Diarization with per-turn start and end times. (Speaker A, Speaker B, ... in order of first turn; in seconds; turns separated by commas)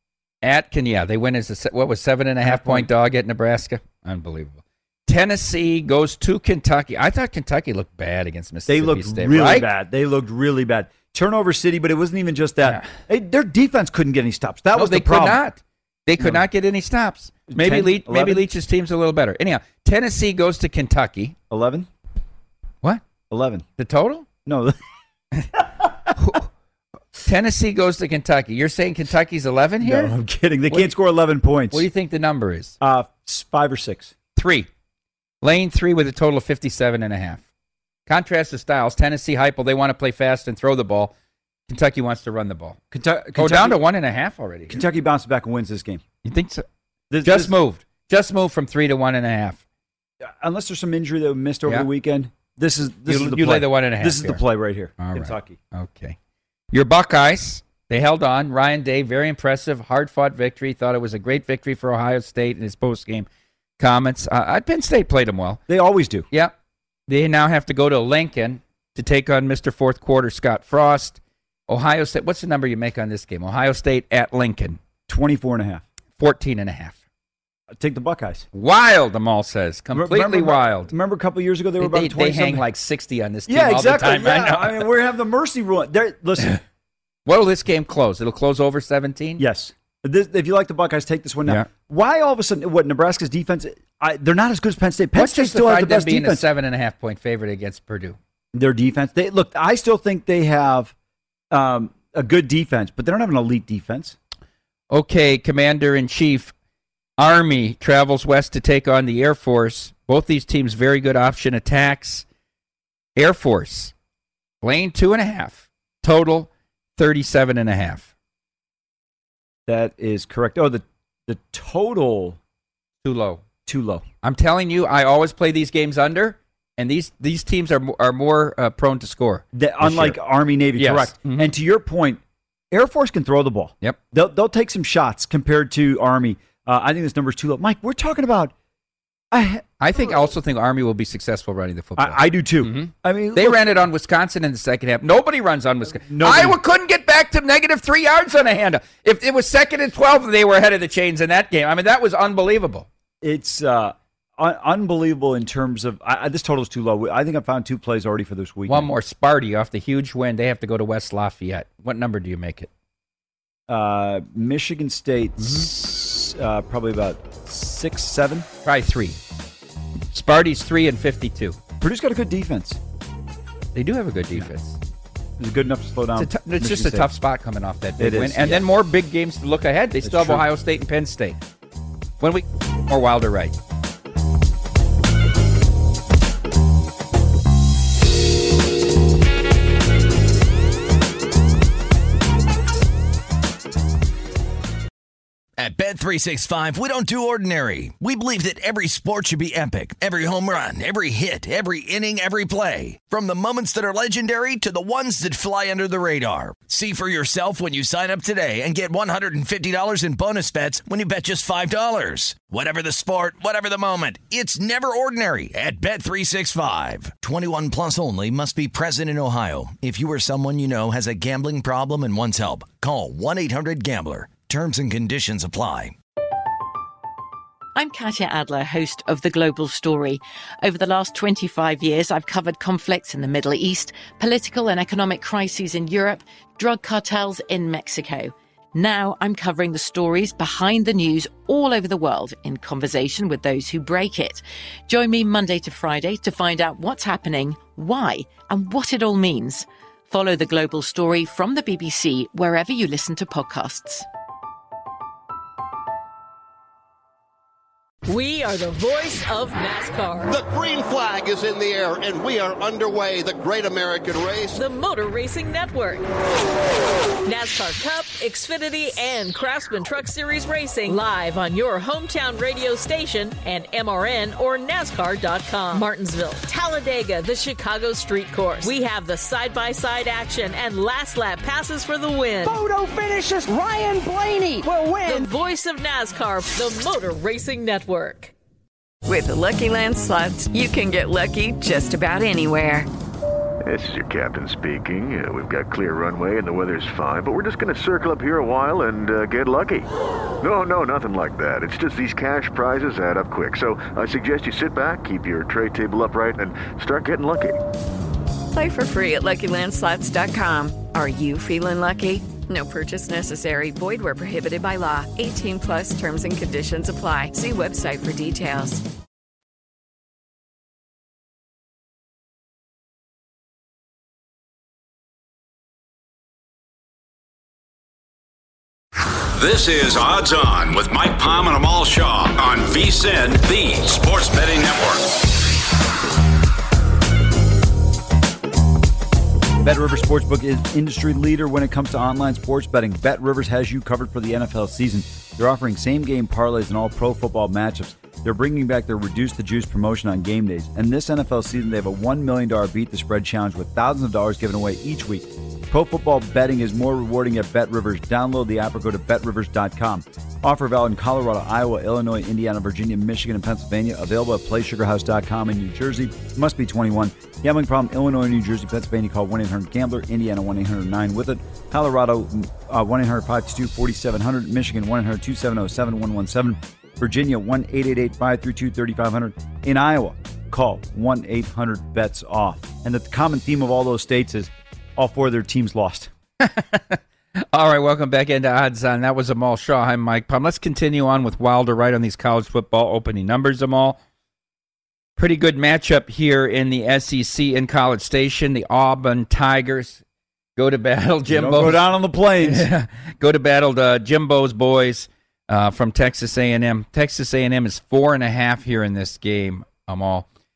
Speaker A: 0.4-9.7, Speaker B: 2.4-2.9, Speaker B: 8.7-15.4, Speaker A: 12.6-13.0, Speaker A: 14.7-21.4, Speaker B: 16.2-16.4, Speaker B: 17.5-18.4, Speaker B: 21.5-21.9, Speaker B: 23.3-23.6, Speaker A: 23.8-24.3, Speaker B: 24.4-24.8, Speaker A: 26.2-26.5, Speaker A: 27.2-30.1, Speaker B: 29.8-31.9, Speaker A: 31.7-32.8, Speaker B: 32.8-34.1, Speaker A: 34.3-34.7, Speaker A: 35.4-37.4, Speaker A: 38.1-41.1, Speaker A: 41.7-42.8, Speaker B: 42.9-43.8, Speaker A: 43.4-44.8, Speaker B: 44.7-46.0, Speaker A: 46.2-46.6, Speaker B: 47.1-47.5, Speaker A: 47.2-49.6, Speaker B: 50.2-55.6, Speaker A: 53.1-54.4, Speaker A: 55.0-56.2, Speaker A: 56.7-63.3, Speaker A: 63.8-65.6, Speaker B: 65.7-66.3, Speaker A: 67.1-74.8, Speaker B: 75.1-75.8, Speaker A: 76.2-77.0, Speaker B: 77.7-78.5, Speaker A: 78.5-80.9, Speaker B: 79.9-82.6, Speaker A: 81.8-84.9, Speaker B: 83.5-86.5, Speaker A: 87.2-89.4, Speaker B: 89.4-96.4, Speaker A: 95.1-98.2, Speaker B: 98.5-100.9, Speaker B: 101.5-104.2, Speaker A: 104.9-106.5, Speaker A: 107.2-112.2, Speaker A: 113.2-113.9, Speaker A: 114.6-118.1, Speaker B: 119.7-122.4, Speaker A: 123.0-123.4, Speaker B: 123.7-124.0, Speaker A: 124.2-130.2, Speaker B: 129.5-138.5, Speaker A: 130.8-131.5, Speaker B: 139.3-140.2, Speaker A: 139.8-152.9, Speaker B: 142.0-143.6, Speaker B: 146.0-146.6, Speaker B: 153.2-158.9, Speaker A: 158.7-162.7, Speaker B: 163.7-168.5, Speaker A: 165.4-165.7, Speaker A: 168.6-169.2, Speaker A: 170.1-171.6, Speaker B: 171.8-172.8, Speaker A: 173.7-174.8, Speaker B: 175.4-177.1, Speaker A: 176.2-181.4, Speaker B: 178.0-178.6, Speaker B: 180.0-180.4, Speaker A: 182.2-183.5, Speaker C: 195.6-225.9, Speaker D: 227.8-254.1, Speaker E: 258.1-260.4, Speaker F: 260.3-264.6, Speaker E: 264.5-266.1, Speaker E: 267.2-282.5, Speaker G: 282.4-285.3, Speaker E: 285.1-288.3, Speaker H: 289.0-292.9, Speaker I: 293.6-299.9, Speaker I: 300.4-307.6, Speaker H: 308.5-318.8, Speaker J: 329.4-335.1, Speaker B: 339.6-386.1, Speaker A: 386.4-387.0, Speaker A: 387.5-394.0, Speaker A: 395.2-400.0, Speaker A: 400.6-410.2, Speaker B: 401.2-402.7